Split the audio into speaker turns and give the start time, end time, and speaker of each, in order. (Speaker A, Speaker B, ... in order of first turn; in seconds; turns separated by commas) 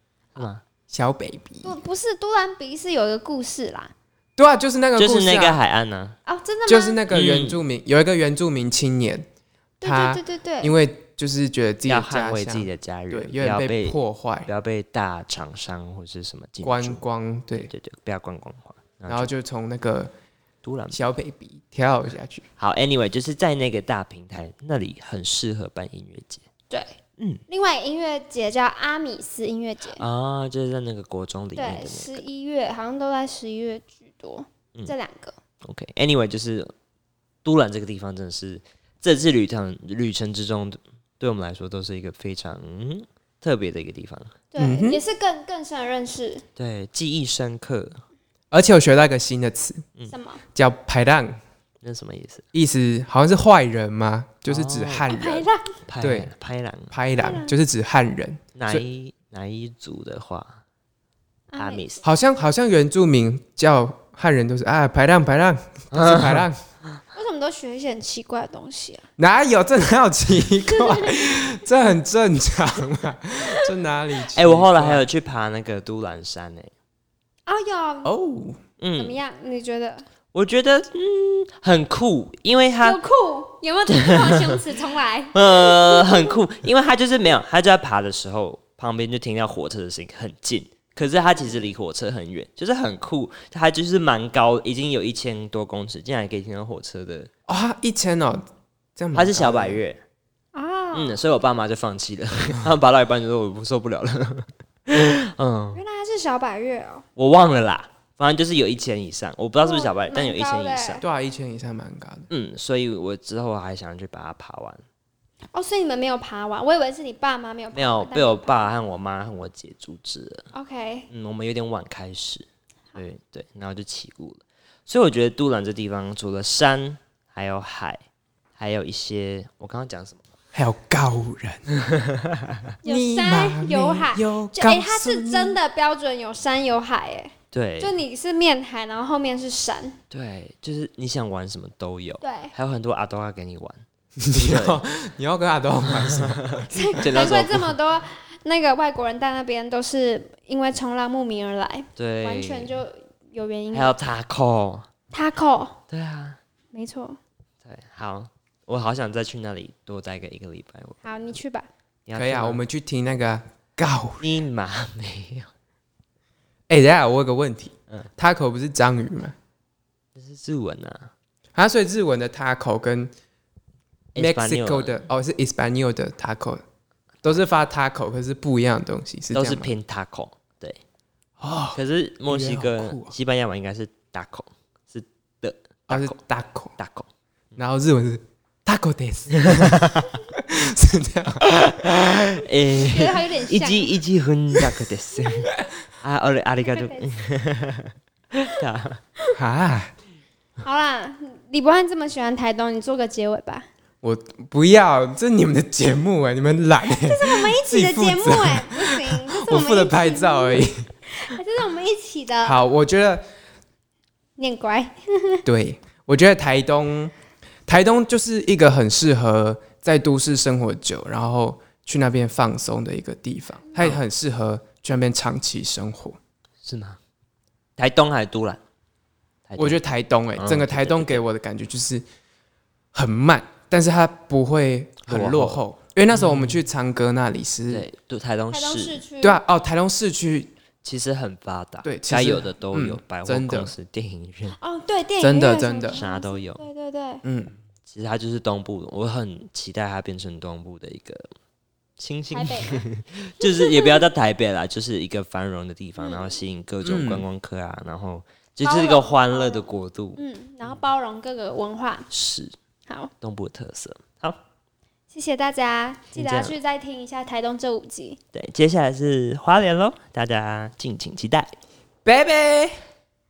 Speaker A: 0.4-0.6, Speaker B: 0.9-1.8, Speaker C: 1.6-3.9, Speaker B: 4.4-5.6, Speaker A: 5.0-6.2, Speaker C: 6.3-7.0, Speaker B: 6.7-9.3, Speaker A: 7.1-7.6, Speaker C: 9.8-10.8, Speaker B: 9.8-14.5, Speaker A: 11.8-17.0, Speaker B: 16.6-17.7, Speaker A: 17.5-19.3, Speaker B: 19.1-20.1, Speaker A: 20.6-21.1, Speaker B: 20.9-22.4, Speaker A: 22.6-26.4, Speaker C: 26.7-27.0, Speaker A: 27.2-27.4, Speaker C: 27.5-30.0, Speaker A: 29.9-32.2, Speaker C: 31.6-35.4, Speaker A: 35.6-36.7, Speaker A: 37.5-44.3, Speaker C: 44.5-46.4, Speaker B: 44.6-45.0, Speaker A: 46.6-48.0, Speaker B: 48.5-49.8, Speaker C: 50.1-50.4, Speaker B: 50.5-51.4, Speaker A: 51.8-52.4, Speaker B: 52.5-55.5, Speaker A: 54.5-55.1, Speaker C: 55.1-55.7, Speaker A: 55.9-56.9, Speaker B: 56.0-56.3, Speaker B: 56.9-58.8, Speaker C: 57.2-57.5, Speaker A: 58.5-60.6, Speaker C: 61.5-62.0, Speaker A: 61.6-62.0, Speaker B: 62.0-66.6, Speaker A: 65.9-66.5, Speaker C: 67.1-69.0, Speaker B: 69.2-75.1, Speaker C: 70.7-71.4, Speaker A: 74.3-76.7, Speaker C: 77.5-78.1, Speaker B: 78.0-78.6, Speaker A: 78.8-79.2, Speaker C: 79.0-80.1, Speaker A: 80.3-83.0, Speaker C: 82.8-86.4, Speaker A: 83.9-84.6, Speaker A: 85.3-97.3, Speaker B: 97.5-99.8, Speaker A: 99.1-100.0, Speaker C: 100.5-101.2, Speaker A: 100.9-105.8, Speaker C: 105.8-107.0, Speaker A: 107.2-111.0, Speaker C: 109.6-111.0, Speaker B: 111.0-112.3, Speaker A: 112.3-114.8, Speaker C: 115.5-118.7, Speaker A: 117.7-120.5, Speaker C: 120.5-121.1, Speaker A: 121.1-128.0, Speaker A: 128.6-130.2, Speaker B: 130.5-131.7, Speaker B: 132.8-135.6, Speaker C: 132.8-140.0, Speaker A: 137.5-138.0, Speaker A: 140.1-144.8, Speaker C: 142.2-142.5, Speaker B: 144.2-146.9, Speaker A: 146.2-147.8, Speaker C: 146.7-154.0, Speaker A: 152.0-152.8, Speaker A: 153.7-154.9, Speaker C: 155.1-155.8, Speaker A: 155.9-156.4, Speaker C: 156.7-157.2, Speaker A: 157.7-161.4, Speaker C: 161.0-161.7, Speaker A: 162.1-162.6, Speaker B: 162.2-164.3, Speaker A: 164.2-165.5, Speaker B: 166.7-169.3, Speaker A: 170.2-171.1, Speaker B: 171.6-173.1, Speaker A: 174.2-175.1, Speaker B: 174.2-176.6, Speaker B: 177.2-179.7, Speaker A: 179.3-180.8, Speaker B: 181.4-183.1, Speaker A: 181.7-186.2, Speaker B: 185.9-186.7, Speaker A: 186.8-187.1, Speaker B: 187.6-189.8, Speaker A: 189.5-190.1, Speaker B: 190.4-191.4, Speaker A: 191.5-199.0, Speaker C: 192.7-193.9, Speaker C: 196.6-197.1, Speaker B: 199.3-199.9, Speaker C: 200.6-203.7, Speaker B: 204.0-210.9, Speaker C: 206.9-212.6, Speaker B: 212.4-213.2, Speaker C: 214.4-215.4, Speaker B: 215.4-217.1, Speaker B: 217.7-226.2, Speaker A: 226.6-227.0, Speaker A: 227.8-228.6, Speaker A: 229.5-229.8, Speaker B: 229.6-232.0, Speaker A: 230.3-231.2, Speaker B: 232.9-237.8, Speaker A: 235.0-236.7, Speaker A: 237.7-239.0, Speaker C: 238.5-239.4, Speaker B: 239.2-240.5, Speaker A: 240.8-244.6, Speaker B: 241.8-243.7, Speaker C: 244.5-247.2, Speaker B: 245.2-246.0, Speaker A: 245.9-246.6, Speaker B: 247.2-247.6, Speaker A: 247.9-251.3, Speaker A: 252.0-260.8, Speaker C: 252.3-252.8, Speaker C: 253.4-254.1, Speaker C: 256.0-256.4, Speaker B: 256.8-257.3, Speaker C: 258.6-262.1, Speaker A: 262.1-262.5, Speaker A: 263.2-264.4, Speaker C: 265.1-268.2, Speaker A: 266.1-266.6, Speaker A: 268.3-271.5, Speaker B: 272.1-272.8